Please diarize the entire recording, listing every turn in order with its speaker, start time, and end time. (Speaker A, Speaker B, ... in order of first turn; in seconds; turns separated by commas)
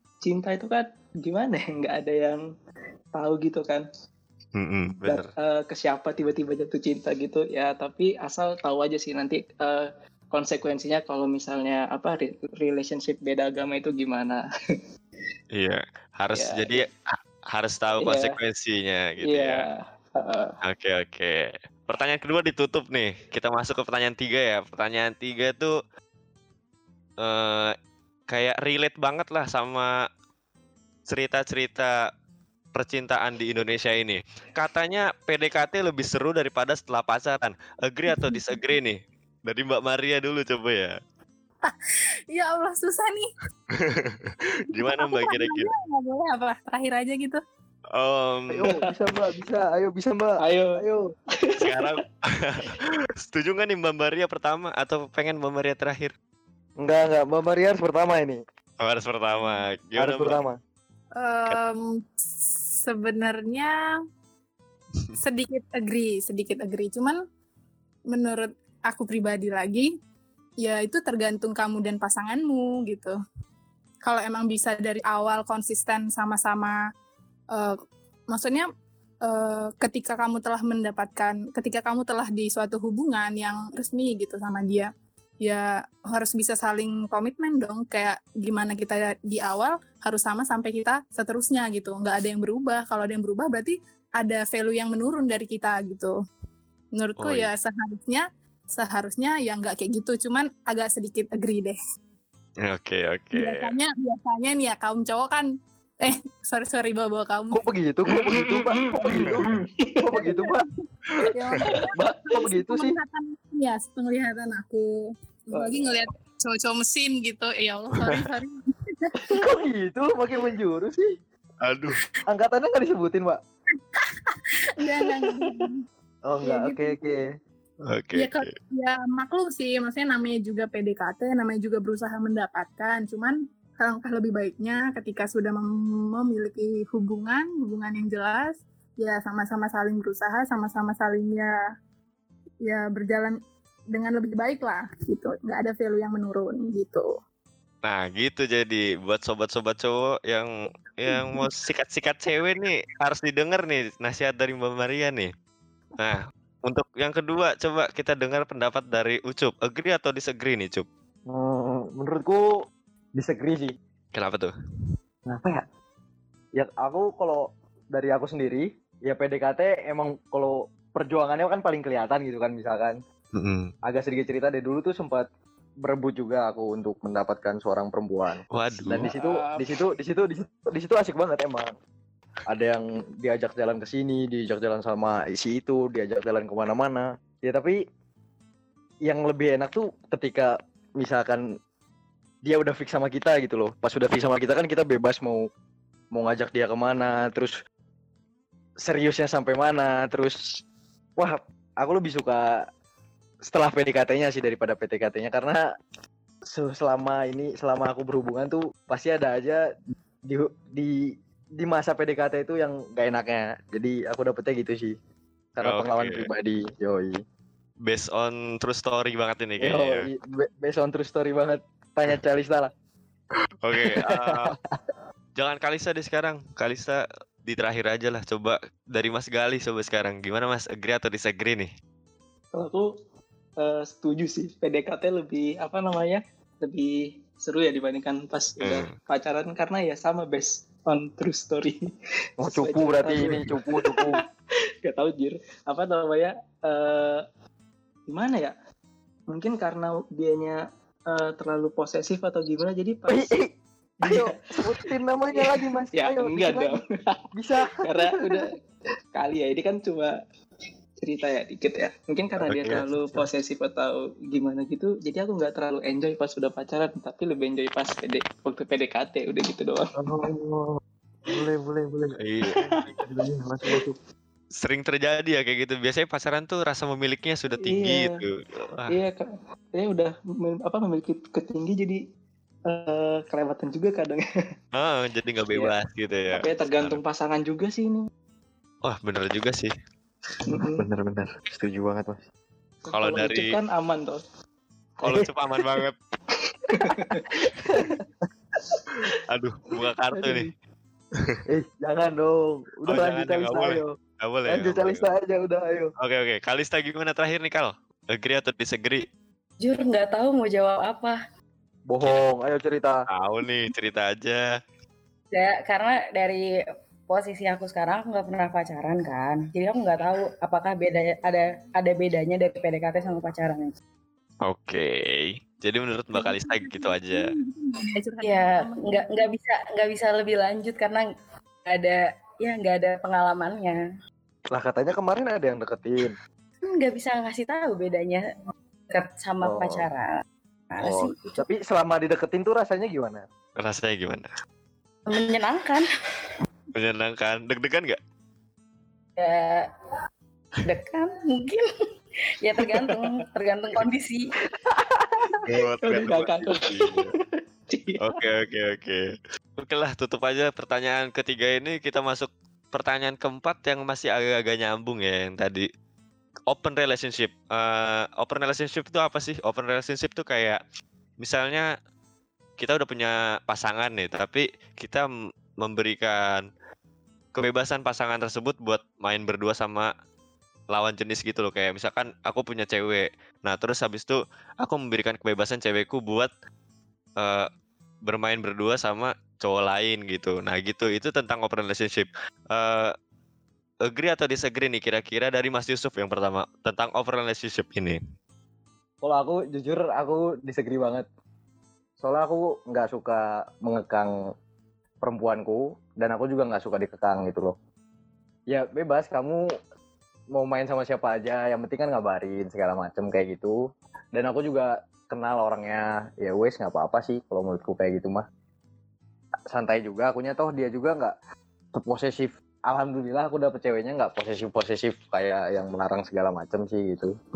Speaker A: 0.2-2.4, Speaker A: 3.1-3.8, Speaker B: 4.6-5.3, Speaker A: 5.1-14.4, Speaker B: 15.6-16.9, Speaker A: 16.3-16.9, Speaker B: 17.5-19.6, Speaker A: 18.0-18.4, Speaker A: 19.2-20.6, Speaker B: 20.6-25.7, Speaker B: 27.2-27.7, Speaker B: 28.3-29.9, Speaker B: 31.1-31.9, Speaker B: 32.8-41.0, Speaker C: 38.1-38.6, Speaker C: 42.3-43.3, Speaker B: 43.8-45.7, Speaker C: 44.8-47.4, Speaker B: 48.0-48.7, Speaker D: 48.5-51.1, Speaker A: 48.6-48.9, Speaker A: 50.4-50.8, Speaker A: 51.4-52.0, Speaker B: 51.6-56.1, Speaker D: 56.8-58.4, Speaker B: 58.8-60.4, Speaker D: 60.0-60.5, Speaker C: 61.2-61.8, Speaker C: 62.5-63.7, Speaker C: 65.2-67.2, Speaker C: 68.1-69.9, Speaker C: 70.6-73.1, Speaker C: 74.0-76.8, Speaker C: 78.3-78.7, Speaker C: 79.3-84.9, Speaker C: 85.4-96.1, Speaker C: 97.0-98.2, Speaker B: 97.2-97.5, Speaker C: 98.8-101.8, Speaker B: 102.7-103.7, Speaker C: 103.3-105.5, Speaker C: 106.0-107.6, Speaker D: 107.5-109.5, Speaker A: 108.1-110.2, Speaker D: 110.0-110.7, Speaker C: 110.2-110.6, Speaker C: 111.3-114.9, Speaker D: 111.9-113.0, Speaker C: 115.5-119.3, Speaker A: 115.5-116.0, Speaker D: 119.3-121.1, Speaker B: 121.6-122.0, Speaker D: 122.3-123.4, Speaker C: 124.0-125.8, Speaker D: 126.3-127.2, Speaker C: 126.4-127.0, Speaker B: 127.9-128.5, Speaker C: 128.1-141.5, Speaker C: 142.6-143.4, Speaker C: 143.9-147.1, Speaker B: 147.8-155.3, Speaker B: 156.0-160.9, Speaker D: 161.3-162.4, Speaker D: 163.2-163.8, Speaker B: 164.1-164.5, Speaker D: 165.3-165.6, Speaker D: 166.6-173.0, Speaker B: 173.4-173.7, Speaker D: 173.8-175.3, Speaker D: 175.8-181.7, Speaker B: 178.5-179.1, Speaker A: 179.1-179.7, Speaker D: 182.5-187.8, Speaker D: 189.1-191.4, Speaker D: 192.4-195.5, Speaker D: 196.1-197.5, Speaker D: 198.8-200.6, Speaker D: 201.2-202.4, Speaker D: 203.5-205.6, Speaker D: 206.4-209.6, Speaker D: 210.3-210.9, Speaker D: 211.6-214.9, Speaker D: 215.6-217.2, Speaker B: 215.6-216.3, Speaker B: 217.9-220.1, Speaker D: 219.6-222.7, Speaker B: 223.6-224.5, Speaker D: 223.8-224.6, Speaker B: 225.4-231.7, Speaker A: 232.5-232.9, Speaker A: 233.6-241.8, Speaker B: 238.6-238.9, Speaker A: 242.4-244.2, Speaker D: 242.4-244.2, Speaker A: 244.8-247.2, Speaker A: 248.1-248.5, Speaker A: 249.3-250.6, Speaker A: 251.1-253.3, Speaker D: 253.1-253.5, Speaker A: 254.0-256.9, Speaker D: 254.1-256.7, Speaker D: 257.4-258.4, Speaker A: 257.7-258.5, Speaker A: 259.1-260.1, Speaker A: 261.0-269.9, Speaker B: 262.4-262.8, Speaker D: 270.0-273.9, Speaker B: 272.2-272.6, Speaker A: 272.5-272.9, Speaker B: 274.6-278.9, Speaker A: 277.5-278.2, Speaker A: 278.9-282.0, Speaker A: 282.7-284.2, Speaker B: 284.8-287.0, Speaker A: 286.3-288.1, Speaker B: 288.9-289.7, Speaker A: 290.5-290.9, Speaker D: 290.8-292.2, Speaker A: 292.9-294.2, Speaker B: 292.9-293.6, Speaker B: 295.0-295.9, Speaker A: 296.7-298.0, Speaker D: 296.9-297.1, Speaker D: 297.8-298.0, Speaker B: 299.3-300.5, Speaker D: 300.1-300.5, Speaker D: 301.5-303.9, Speaker B: 302.9-305.1, Speaker D: 304.5-305.9, Speaker B: 306.0-309.0, Speaker E: 309.6-311.2, Speaker D: 311.9-313.0, Speaker B: 313.1-314.4, Speaker E: 315.3-316.4, Speaker E: 317.1-323.7, Speaker B: 324.5-327.3, Speaker C: 326.1-329.2, Speaker E: 328.2-331.0, Speaker E: 331.7-333.8, Speaker D: 334.5-336.1, Speaker E: 336.7-338.2, Speaker E: 338.9-340.1, Speaker D: 339.4-339.9, Speaker E: 340.7-341.4, Speaker D: 340.8-343.2, Speaker B: 343.6-344.3, Speaker E: 345.1-345.9, Speaker B: 346.8-348.0, Speaker E: 349.2-349.7, Speaker E: 350.6-351.7, Speaker E: 352.4-354.3, Speaker A: 352.6-352.9, Speaker B: 355.5-357.1, Speaker A: 355.8-358.0, Speaker B: 358.0-359.0, Speaker B: 359.6-365.6, Speaker B: 366.5-370.6, Speaker B: 371.2-371.7, Speaker B: 372.6-375.1, Speaker B: 375.6-376.5, Speaker B: 377.4-379.9, Speaker B: 380.7-386.3, Speaker B: 387.2-387.5, Speaker B: 388.1-392.9, Speaker B: 393.9-398.0, Speaker D: 399.0-401.1, Speaker D: 402.0-404.1, Speaker D: 405.0-407.6, Speaker D: 408.5-409.4, Speaker D: 410.4-413.6, Speaker D: 414.1-418.2, Speaker D: 419.5-421.1, Speaker D: 421.8-427.1